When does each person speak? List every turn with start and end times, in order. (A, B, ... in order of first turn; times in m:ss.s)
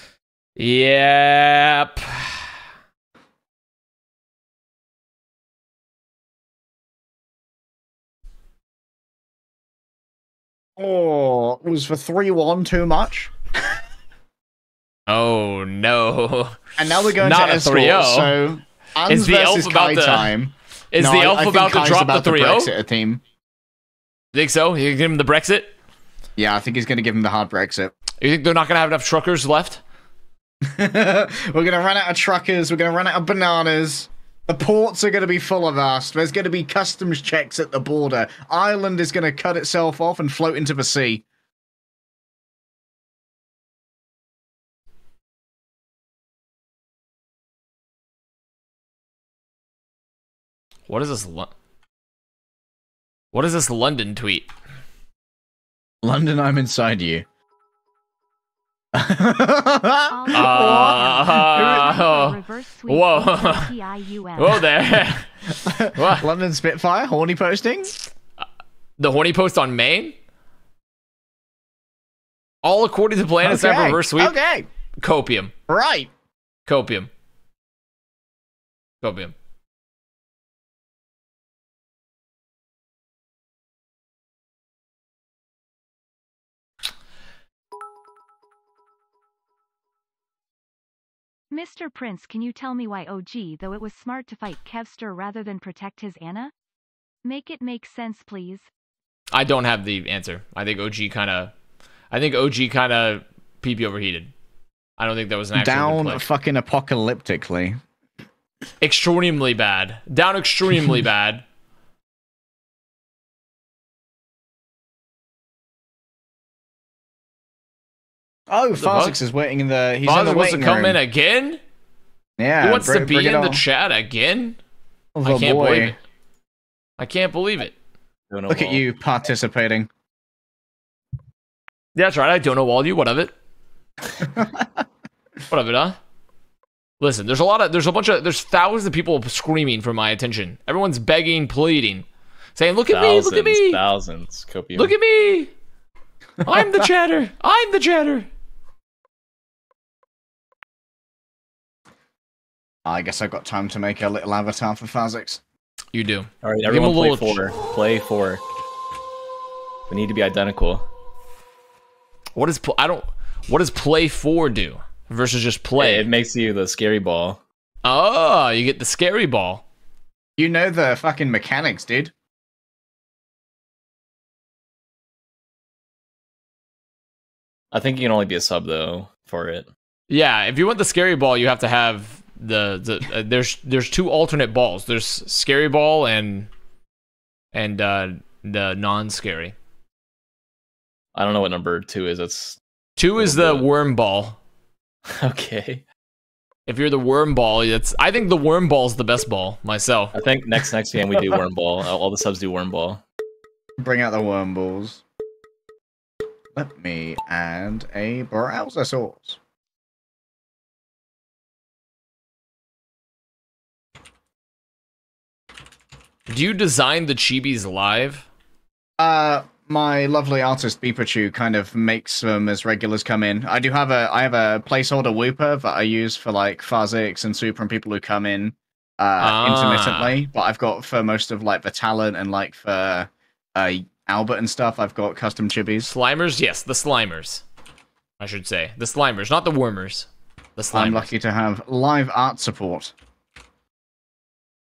0:00.6-0:02.4 A
0:10.8-0:13.3 B
0:15.1-0:16.6 A
0:16.8-0:23.2 B
0:17.2-0:18.4 A
0:19.1-0:20.3 A
0:20.9-0:22.7 A
0:24.3-0:25.7 A
0:26.4-0:27.9 B
0:28.2-0:29.8 A
0:30.6-0:41.2 B
0:50.9-0:51.5 A
0:53.3-0:54.5 A
0:56.0-0:57.2 B
0:58.9-1:02.0 B
1:00.1-1:04.7 C
1:00.3-1:03.7 A
1:04.4-1:05.3 A
1:05.6-1:07.9 B
1:05.9-1:06.3 A
1:09.0-1:10.2 A
1:12.6-1:14.4 A
1:13.4-1:14.7 B
1:15.0-1:15.5 A
1:15.7-1:16.1 B
1:16.6-1:17.1 A
1:19.0-1:19.3 A
1:31.5-1:36.5 C
1:37.2-1:38.7 C
1:39.3-1:41.5 A
1:42.1-1:44.3 A
1:45.0-1:46.2 A
1:45.5-1:47.8 B
1:48.8-1:51.4 A
1:58.5-2:01.0 B
1:58.8-1:59.2 A
2:00.0-2:01.6 A
2:02.4-2:03.6 B
2:02.6-2:04.6 A
2:05.1-2:05.9 B
2:05.2-2:06.0 A
2:07.0-2:07.7 A
2:08.3-2:08.8 D
2:08.5-2:09.9 B
2:12.0-2:13.3 A
2:14.2-2:14.8 B
2:15.5-2:16.0 A
2:17.0-2:23.8 A
2:22.9-2:24.9 D
2:24.7-2:25.5 A
2:26.4-2:28.3 A
2:32.8-2:35.4 B
2:35.9-2:37.4 A
2:36.4-2:38.4 D
2:39.9-2:40.8 D
2:42.4-2:46.1 A
2:45.8-2:47.4 D
2:47.8-2:49.6 A
2:50.4-2:52.1 B
2:57.7-2:59.7 D
3:00.1-3:06.5 A
3:07.5-3:09.5 A
3:11.1-3:12.6 D
3:13.0-3:14.4 A
3:13.2-3:13.6 D
3:15.1-3:15.8 D
3:16.7-3:20.1 A
3:20.1-3:23.0 D
3:23.8-3:25.0 B
3:26.5-3:29.4 B
3:36.3-3:38.3 A
3:39.0-3:55.9 B
3:49.2-3:50.2 A
3:55.8-3:57.4 A
3:58.2-4:01.1 A
4:00.7-4:02.9 B